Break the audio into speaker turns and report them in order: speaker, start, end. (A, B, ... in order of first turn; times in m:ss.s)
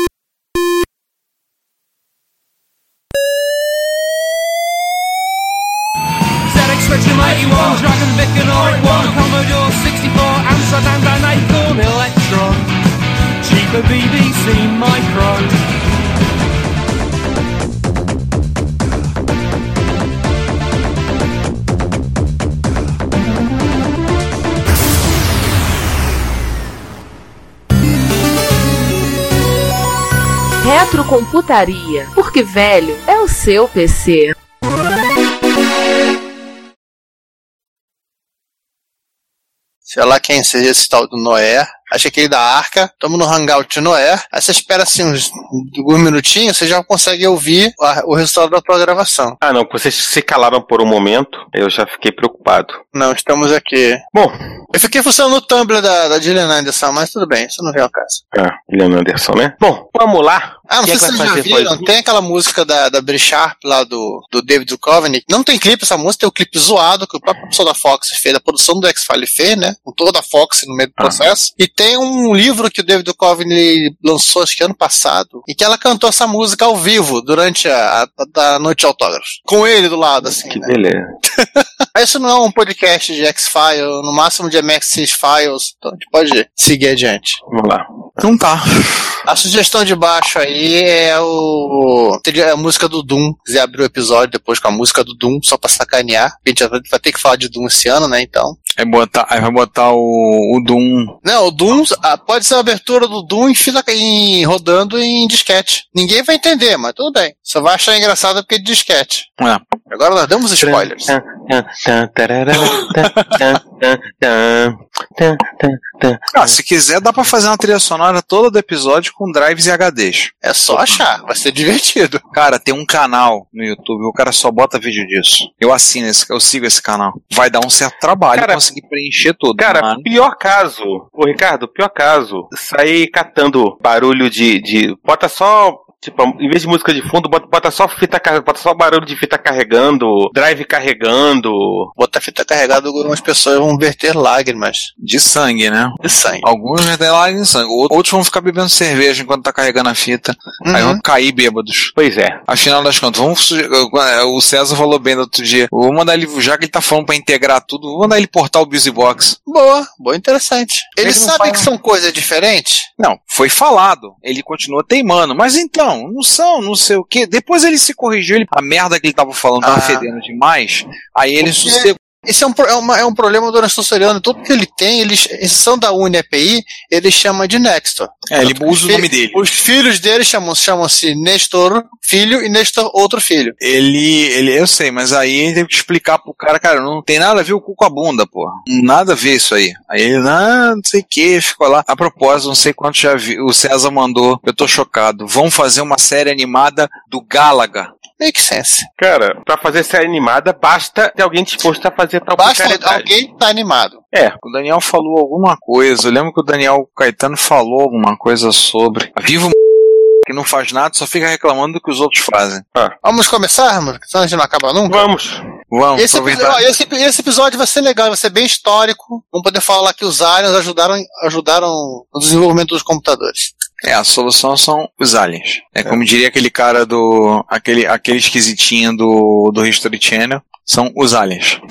0:06.4-0:12.7 A
0:13.4-0:15.6 A
0:30.6-0:34.4 B
0:39.9-0:49.4 C
0:49.4-0:52.8 D
0:52.9-0:54.0 C
0:54.7-0:58.2 C
0:58.3-1:01.9 D
1:00.7-1:20.7 C
1:20.5-1:21.1 D
1:21.4-1:27.4 C
1:27.5-1:27.9 D
1:28.2-1:28.6 E
1:29.3-1:38.6 C
1:38.8-1:41.1 E
1:41.2-1:49.3 C
1:49.9-1:51.2 C
1:50.6-1:56.5 D
1:56.3-2:00.3 E
2:00.4-2:02.2 C
2:02.3-2:10.1 E
2:08.3-2:08.6 D
2:09.6-2:21.9 D
2:22.0-2:24.9 C
2:25.0-2:31.9 E
2:26.0-2:26.5 C
2:30.6-2:31.0 C
2:32.0-2:32.4 D
2:32.5-2:39.4 E
2:39.5-2:42.9 C
2:41.0-2:41.5 E
2:43.0-2:52.0 E
2:49.6-2:50.1 C
2:51.4-3:03.6 C
2:58.3-2:59.4 E
3:03.6-3:17.9 E
3:18.2-3:18.9 C
3:19.0-3:23.1 D
3:22.4-3:24.0 C
3:24.4-3:29.5 E
3:30.3-3:32.6 E
3:33.0-3:35.1 C
3:34.9-3:35.4 D
3:35.7-3:36.6 E
3:36.0-3:43.5 C
3:43.8-3:51.6 E